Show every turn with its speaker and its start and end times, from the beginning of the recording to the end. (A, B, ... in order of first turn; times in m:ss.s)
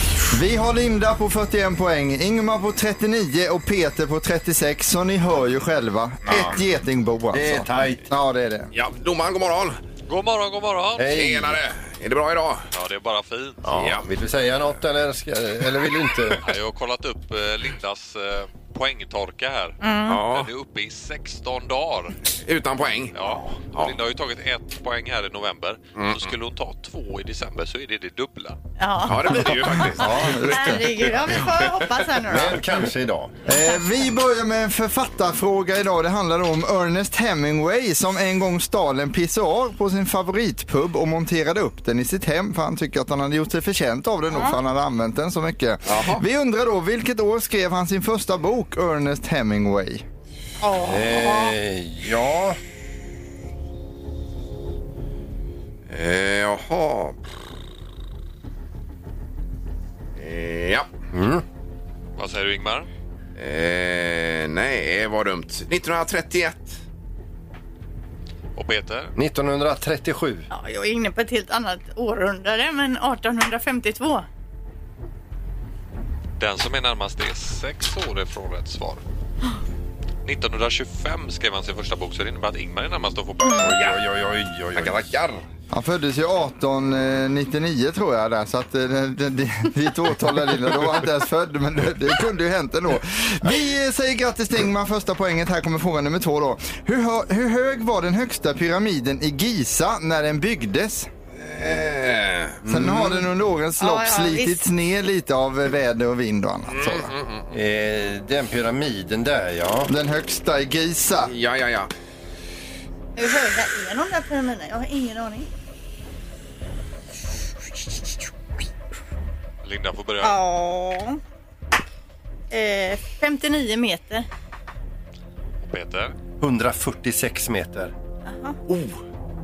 0:00.3-0:08.7 A
0:06.3-0:06.5 B
0:06.3-0:06.6 C
0:07.3-0:08.0 C
0:08.7-0:09.8 B
0:10.1-0:11.1 D
0:11.0-0:11.6 C
0:11.1-0:12.7 B
0:12.7-0:13.7 D
0:13.6-0:16.4 C
0:13.7-0:14.0 B
0:16.4-0:22.2 D
0:19.8-0:20.2 E
0:20.1-0:20.5 B
0:22.4-0:23.1 B
0:23.1-0:28.6 D
0:26.0-0:26.3 B
0:28.8-0:32.6 E
0:29.1-0:31.5 B
0:29.9-0:30.9 A
0:32.3-0:33.4 C
0:33.4-0:50.0 A
0:44.3-0:44.6 E
0:45.9-0:46.2 B
0:50.6-0:51.6 E
0:50.8-0:52.6 C
0:55.9-0:57.2 B
1:00.2-1:00.9 B
1:01.1-1:01.4 C
1:02.2-1:02.9 D
1:03.4-1:06.8 B
1:08.5-1:09.1 D
1:09.2-1:10.5 C
1:10.5-1:14.2 E
1:16.4-1:19.0 D
1:20.2-1:23.8 D
1:23.6-1:25.1 C
1:23.7-1:24.0 B
1:24.7-1:25.4 B
1:25.7-1:41.1 A
1:41.4-1:42.6 B
1:42.6-1:43.2 C
1:42.7-1:47.1 A
1:43.8-1:44.6 E
1:46.7-1:47.5 B
1:47.5-1:49.9 C
1:49.9-1:51.3 A
1:51.2-1:51.9 B
1:53.2-1:55.5 E
1:59.6-2:00.4 D
2:00.2-2:01.2 E
2:02.5-2:04.3 E
2:05.6-2:06.1 D
2:06.4-2:07.9 C
2:08.3-2:08.6 E
2:08.7-2:09.0 B